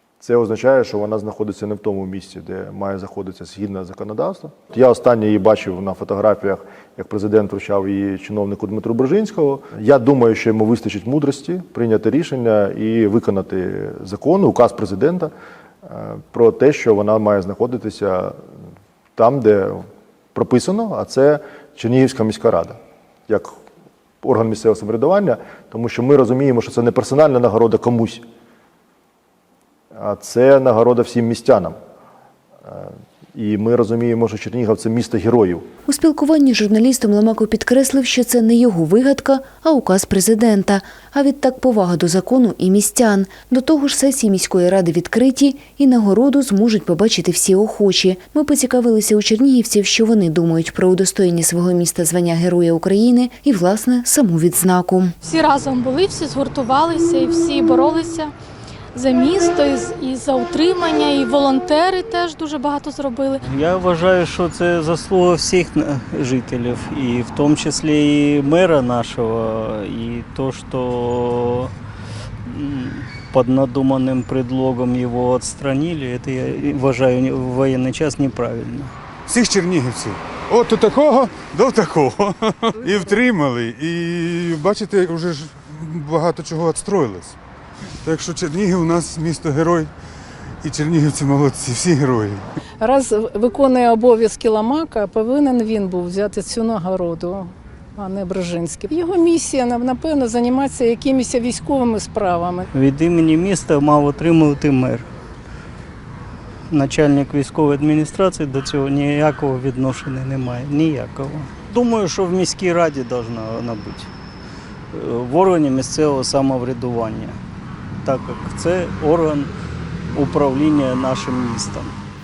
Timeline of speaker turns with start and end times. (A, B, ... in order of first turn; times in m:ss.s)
0:00.2-0:15.3 A
0:15.8-0:18.4 A
0:19.2-0:19.8 A
0:20.3-0:23.6 A
0:24.2-0:28.2 A
0:29.9-0:31.8 A
0:32.6-0:35.7 A
0:35.8-0:55.1 B
0:55.2-0:58.3 C
0:58.9-1:03.4 C
1:03.4-1:11.7 D
1:12.4-1:18.9 D
1:19.3-1:27.3 E
1:28.0-1:29.9 E
1:30.6-1:32.4 E
1:32.8-1:42.7 F
1:42.7-1:45.0 D
1:46.7-1:54.1 D
1:54.9-1:57.4 D
1:58.0-1:59.5 D
2:00.1-2:01.9 D